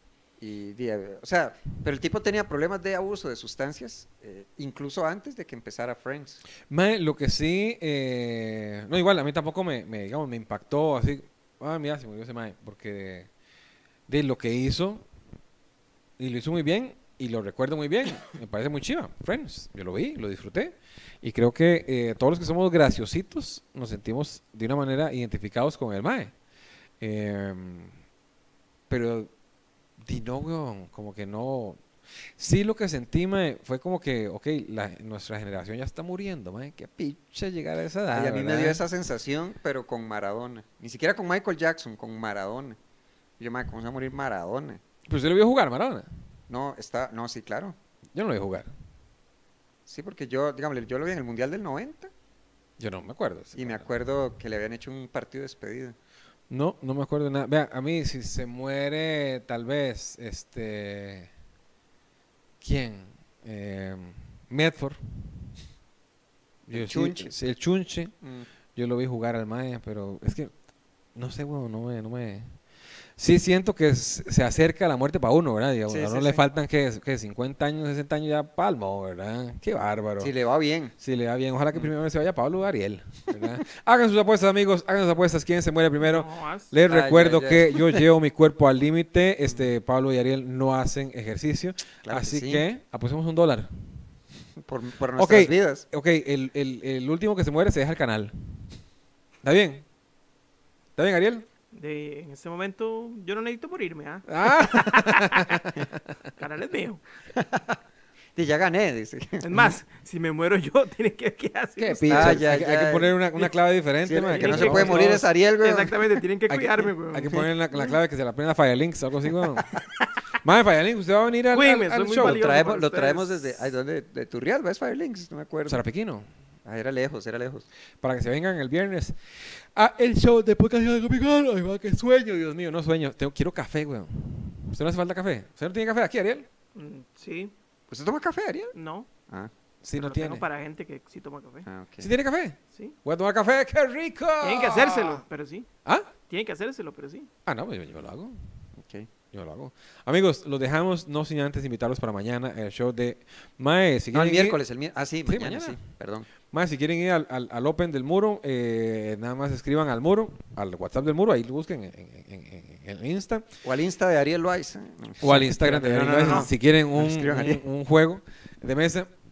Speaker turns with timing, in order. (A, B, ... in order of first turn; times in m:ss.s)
0:00.4-0:06.4 A
0:06.7-0:13.3 B
0:14.1-0:15.0 B
0:16.2-0:26.3 B
0:27.0-0:27.9 B
0:28.9-0:29.3 B
0:30.0-0:31.8 B
0:32.4-0:38.8 B
0:38.1-0:42.8 A
0:43.4-0:44.8 A
0:45.1-0:46.1 B
0:46.5-0:47.7 A
0:48.1-0:48.7 B
0:49.8-0:52.1 A
0:52.8-0:53.9 B
0:53.5-0:56.0 A
0:56.5-1:01.3 B
1:02.6-1:05.4 B
1:06.7-1:08.1 B
1:06.7-1:07.3 A
1:08.2-1:08.5 A
1:08.7-1:10.5 B
1:11.1-1:12.5 B
1:13.2-1:20.3 B
1:15.9-1:16.4 A
1:20.2-1:20.9 A
1:21.0-1:33.7 B
1:26.0-1:26.7 C
1:26.8-1:28.0 A
1:32.0-1:32.6 A
1:34.6-1:35.8 A
1:35.2-1:38.3 B
1:39.4-1:39.8 B
1:41.0-1:41.4 B
1:41.7-1:45.6 C
1:44.3-1:45.9 B
1:46.4-1:47.0 C
1:47.3-1:47.8 A
1:48.4-1:49.4 A
1:49.4-1:52.4 C
1:51.8-1:55.2 B
1:52.1-1:53.2 A
1:54.0-1:56.2 A
1:54.3-1:58.0 C
1:56.5-1:59.7 B
2:00.4-2:02.4 B
2:01.5-2:03.6 C
2:02.2-2:05.8 A
2:05.6-2:06.3 B
2:06.6-2:07.6 A
2:08.0-2:09.2 B
2:09.7-2:16.4 B
2:16.7-2:17.5 C
2:17.9-2:18.7 A
2:18.7-2:19.1 C
2:19.8-2:20.4 B
2:20.0-2:21.7 C
2:21.6-2:22.1 A
2:22.0-2:25.2 B
2:24.4-2:25.7 C
2:25.8-2:26.1 B
2:26.3-2:27.3 C
2:27.4-2:28.4 B
2:28.8-2:29.1 A
2:29.3-2:34.6 B
2:34.1-2:36.3 A
2:35.2-2:35.8 B
2:36.5-2:43.4 B
2:43.6-2:47.6 A
2:45.2-2:49.1 B